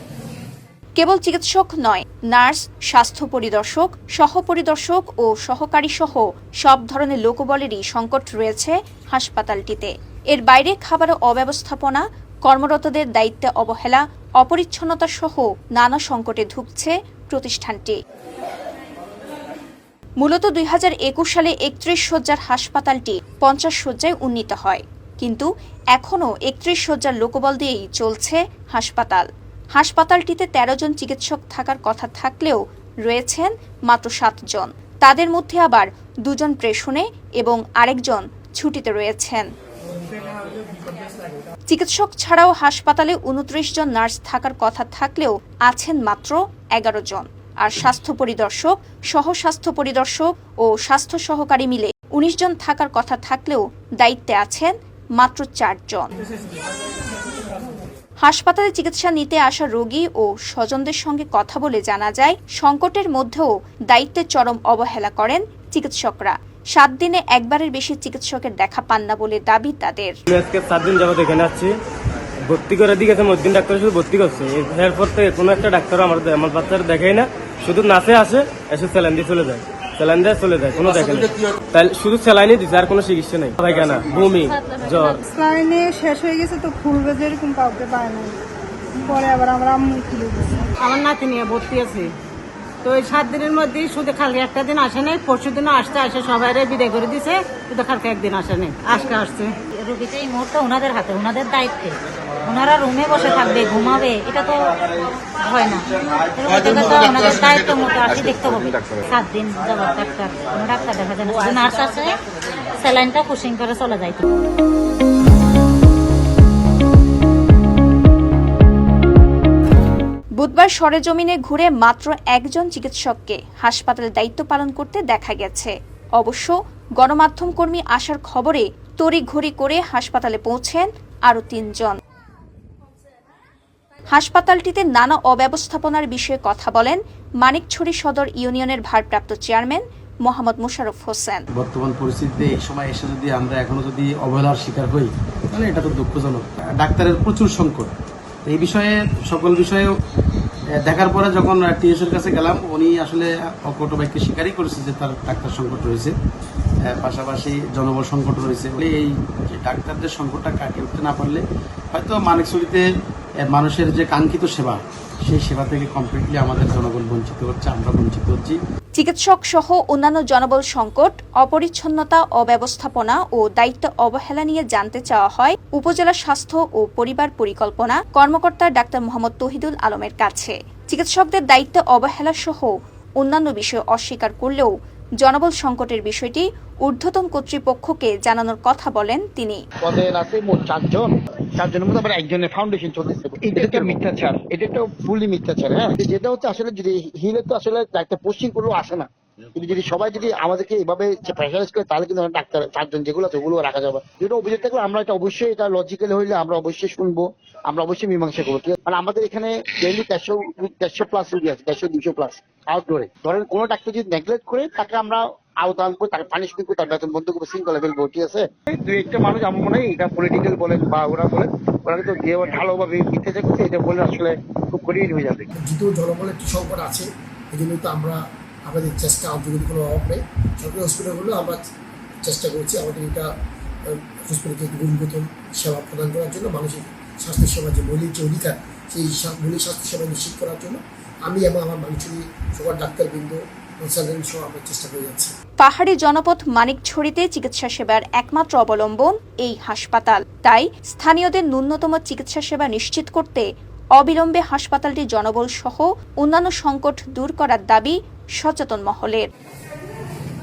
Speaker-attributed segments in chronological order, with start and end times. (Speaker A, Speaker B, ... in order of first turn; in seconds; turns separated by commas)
Speaker A: 1.0-18.0, Speaker A: 20.2-39.5, Speaker A: 41.7-56.2, Speaker A: 58.2-70.2, Speaker B: 70.3-71.7, Speaker B: 72.5-85.2, Speaker C: 80.3-81.2, Speaker C: 81.9-83.2, Speaker C: 83.7-84.2, Speaker D: 84.3-85.2, Speaker E: 85.2-88.4, Speaker E: 88.9-90.7, Speaker C: 90.8-92.1, Speaker C: 92.8-99.6, Speaker D: 99.8-112.2, Speaker D: 112.8-114.2, Speaker A: 120.4-132.0, Speaker A: 134.1-141.4, Speaker F: 141.6-147.9, Speaker F: 148.4-149.9, Speaker F: 150.8-156.1, Speaker F: 156.8-162.8, Speaker F: 163.4-168.6, Speaker A: 169.0-189.6, Speaker G: 189.8-225.5, Speaker H: 225.6-231.6, Speaker H: 232.2-233.3, Speaker H: 233.9-245.3, Speaker A: 245.6-253.4, Speaker A: 254.0-259.3